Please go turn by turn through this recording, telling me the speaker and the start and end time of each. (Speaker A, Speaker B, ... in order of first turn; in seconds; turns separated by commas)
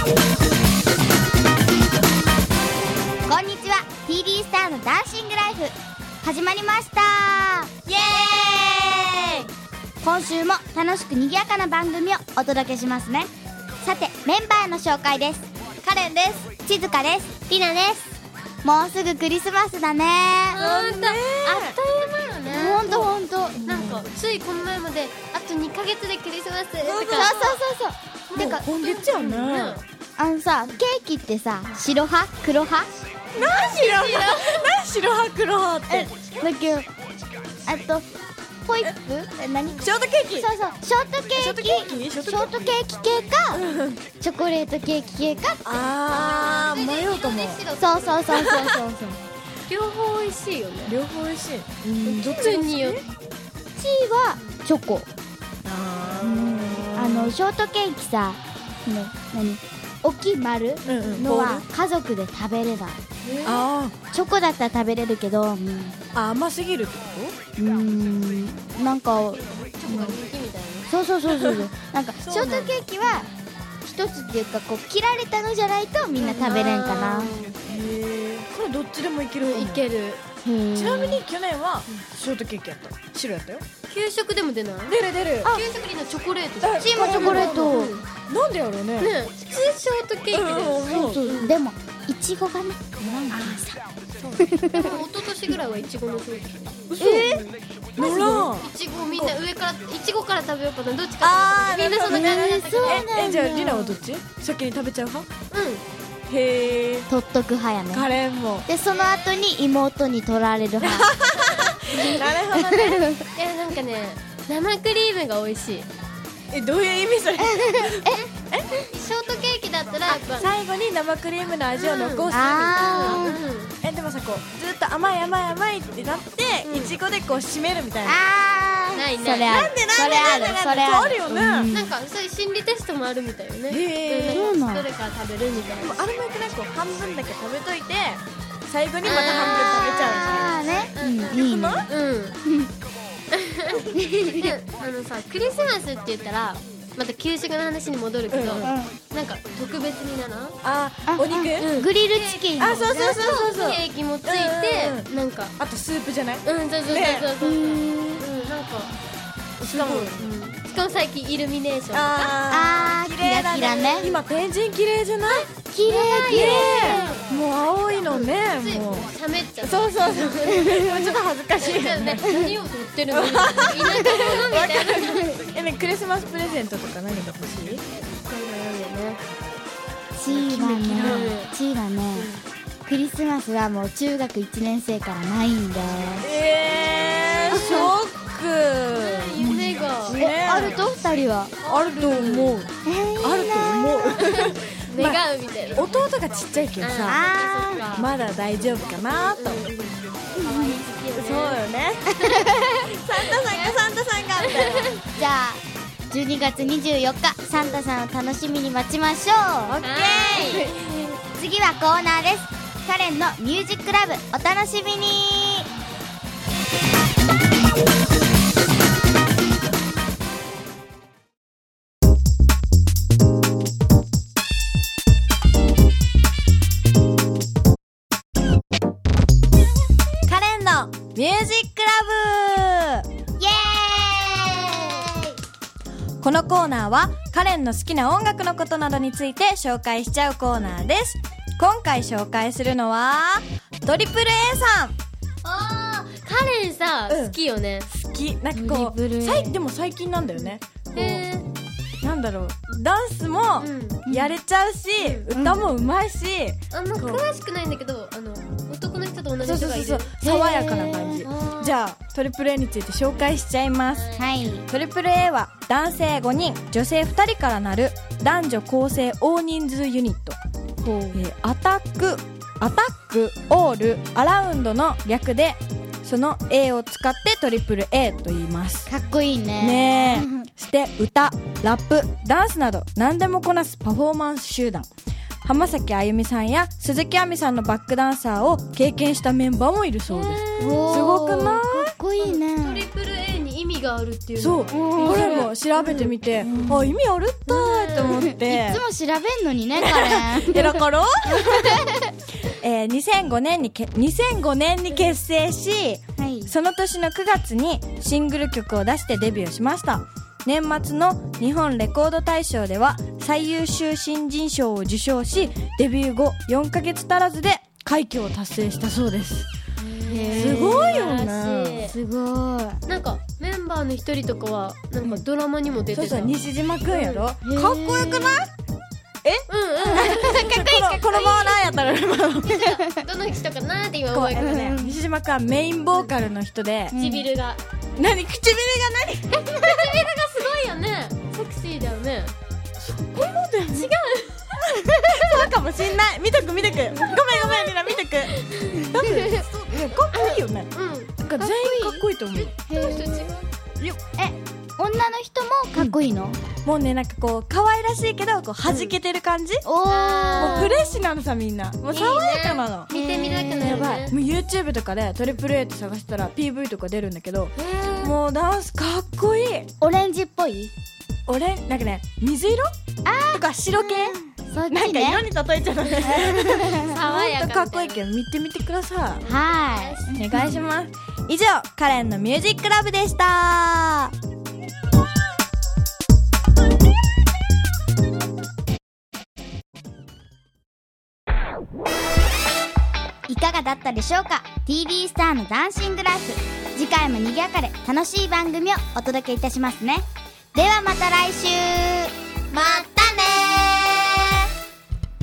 Speaker A: 3.3-7.9, Speaker B: 7.9-9.5, Speaker A: 10.0-18.1, Speaker A: 18.6-20.6, Speaker C: 20.5-27.4, Speaker B: 20.6-21.8, Speaker A: 22.5-23.9, Speaker B: 23.7-24.0, Speaker B: 26.8-27.6, Speaker A: 27.1-28.6, Speaker C: 28.3-29.9, Speaker B: 28.4-29.8, Speaker A: 30.2-32.9, Speaker B: 33.4-36.1, Speaker C: 33.4-34.8, Speaker A: 35.9-36.9, Speaker A: 37.6-38.1, Speaker A: 38.6-43.6, Speaker B: 39.8-40.5, Speaker B: 41.3-42.7, Speaker B: 43.5-44.0, Speaker A: 44.2-45.6, Speaker B: 45.6-47.6, Speaker C: 46.0-48.5, Speaker A: 47.8-49.2, Speaker B: 48.3-48.8, Speaker C: 49.7-51.0, Speaker B: 50.9-53.0, Speaker C: 52.0-53.0, Speaker A: 53.8-55.1, Speaker B: 55.6-57.4, Speaker A: 56.1-63.0, Speaker B: 60.9-61.6, Speaker C: 63.2-63.7, Speaker B: 63.5-64.0, Speaker A: 64.1-66.0, Speaker B: 66.1-67.3, Speaker A: 67.6-70.2, Speaker C: 69.6-70.9, Speaker A: 70.9-73.3, Speaker B: 71.3-71.6, Speaker B: 72.2-73.2, Speaker A: 73.8-77.3, Speaker B: 76.2-76.5, Speaker C: 76.4-77.6, Speaker B: 77.6-79.8, Speaker C: 79.4-80.2, Speaker A: 80.4-81.2, Speaker B: 80.8-83.6, Speaker C: 83.9-88.0, Speaker B: 84.9-85.7, Speaker B: 86.6-89.1, Speaker A: 86.8-88.0, Speaker C: 89.0-91.6, Speaker B: 90.3-91.2, Speaker A: 90.8-93.7, Speaker B: 93.3-93.7, Speaker A: 94.4-95.0, Speaker C: 94.7-103.1, Speaker B: 96.9-97.4, Speaker A: 97.0-97.4, Speaker B: 98.0-99.4, Speaker A: 98.0-98.5, Speaker B: 101.2-105.3, Speaker A: 102.1-104.0, Speaker C: 105.5-105.8, Speaker B: 106.3-107.1, Speaker A: 107.1-108.1, Speaker B: 107.9-108.7, Speaker A: 108.7-111.1, Speaker C: 108.9-109.5, Speaker B: 110.8-113.1, Speaker C: 111.4-112.2, Speaker A: 112.2-113.2, Speaker C: 113.4-115.9, Speaker B: 116.5-118.7, Speaker A: 117.4-118.2, Speaker C: 118.9-120.5, Speaker B: 120.3-123.2, Speaker C: 121.7-123.8, Speaker A: 122.3-123.4, Speaker B: 123.8-128.2, Speaker C: 126.7-127.0, Speaker A: 128.1-131.9, Speaker C: 128.9-129.6, Speaker B: 129.4-131.7, Speaker C: 131.7-136.1, Speaker B: 133.7-134.5, Speaker A: 134.3-134.9, Speaker B: 135.8-141.9, Speaker C: 139.0-142.4, Speaker A: 139.1-141.9, Speaker A: 142.4-142.7, Speaker C: 143.3-150.6, Speaker A: 143.9-144.5, Speaker B: 148.3-148.7, Speaker A: 148.6-149.0, Speaker B: 150.6-151.7, Speaker A: 151.1-153.3, Speaker C: 151.6-155.6, Speaker B: 152.6-157.3, Speaker C: 156.4-159.0, Speaker A: 157.4-158.3, Speaker B: 159.6-160.3, Speaker C: 159.6-162.4, Speaker B: 161.9-165.5, Speaker A: 162.5-164.2, Speaker A: 165.7-167.2, Speaker C: 165.8-167.3, Speaker B: 166.3-172.5, Speaker C: 168.1-170.7, Speaker A: 170.6-171.2, Speaker C: 171.6-175.5, Speaker B: 173.1-177.8, Speaker C: 178.2-179.3, Speaker A: 180.2-182.3, Speaker B: 180.3-181.3, Speaker C: 181.0-181.5, Speaker C: 182.2-182.4, Speaker A: 182.9-186.3, Speaker B: 186.2-190.8, Speaker C: 187.0-187.9, Speaker A: 187.5-187.9, Speaker C: 189.0-190.8, Speaker A: 189.4-191.6, Speaker C: 191.6-192.6, Speaker B: 191.7-192.7, Speaker A: 192.8-194.3, Speaker B: 193.2-195.2, Speaker C: 194.2-196.1, Speaker B: 195.8-197.2, Speaker C: 196.8-198.1, Speaker A: 197.1-197.8, Speaker B: 197.9-199.6, Speaker C: 199.3-201.6, Speaker A: 200.4-200.8, Speaker B: 201.2-205.0, Speaker A: 202.2-202.8, Speaker C: 203.3-203.8, Speaker C: 204.4-205.0, Speaker A: 205.1-209.8, Speaker B: 209.7-210.7, Speaker C: 209.8-211.2, Speaker A: 210.3-210.7, Speaker A: 211.3-215.7, Speaker B: 230.3-233.0, Speaker A: 233.4-235.4, Speaker B: 236.2-245.0, Speaker C: 245.4-247.9, Speaker B: 247.1-247.4, Speaker B: 247.9-251.2, Speaker A: 248.5-249.6, Speaker C: 250.9-251.5, Speaker B: 252.0-257.2, Speaker C: 253.6-254.0, Speaker A: 254.1-254.4, Speaker C: 255.0-255.3, Speaker A: 255.3-255.7, Speaker C: 256.7-260.1, Speaker B: 259.4-264.1, Speaker A: 260.2-261.3, Speaker C: 261.2-261.8, Speaker C: 263.9-264.3, Speaker A: 264.2-264.7, Speaker B: 264.7-270.4, Speaker A: 270.8-271.2, Speaker B: 271.1-278.9, Speaker A: 278.9-280.5, Speaker B: 279.6-284.9, Speaker B: 285.4-291.9, Speaker C: 290.1-291.1, Speaker A: 290.6-292.9, Speaker C: 292.2-296.1, Speaker B: 294.4-298.8, Speaker A: 294.7-295.5, Speaker A: 296.4-296.9, Speaker C: 297.5-298.3, Speaker A: 298.0-302.1, Speaker B: 299.8-301.9, Speaker B: 302.4-319.5, Speaker A: 306.2-306.5, Speaker C: 319.8-322.0, Speaker A: 320.1-321.1, Speaker B: 320.4-321.9, Speaker A: 321.9-322.8, Speaker C: 322.9-327.3, Speaker B: 325.9-328.5, Speaker A: 327.4-328.4, Speaker B: 329.2-332.6, Speaker C: 329.5-331.6, Speaker A: 329.9-330.2, Speaker C: 332.4-334.6, Speaker A: 332.6-333.0, Speaker B: 334.1-336.9, Speaker A: 334.4-335.0, Speaker A: 336.9-337.3, Speaker C: 336.9-337.6, Speaker B: 338.0-339.9, Speaker C: 339.3-342.4, Speaker B: 342.8-343.9, Speaker C: 343.7-344.5, Speaker B: 344.6-352.6, Speaker C: 347.1-347.7, Speaker C: 348.3-349.4, Speaker C: 350.1-351.1, Speaker A: 351.4-352.1, Speaker A: 352.7-353.4, Speaker C: 352.7-353.5, Speaker A: 354.2-356.4, Speaker B: 356.6-359.6, Speaker C: 358.7-358.9, Speaker A: 359.6-360.8, Speaker C: 359.9-360.9, Speaker B: 360.4-362.9, Speaker C: 361.9-364.1, Speaker A: 362.9-364.0, Speaker B: 363.6-369.7, Speaker C: 367.6-368.1, Speaker A: 369.8-370.7, Speaker B: 371.3-372.7, Speaker A: 373.1-375.2, Speaker B: 373.3-379.2, Speaker C: 375.9-378.0, Speaker A: 376.0-376.9, Speaker C: 379.2-380.6, Speaker A: 379.2-380.6, Speaker B: 380.1-384.1, Speaker A: 393.3-402.8, Speaker B: 402.5-403.3, Speaker A: 403.4-403.8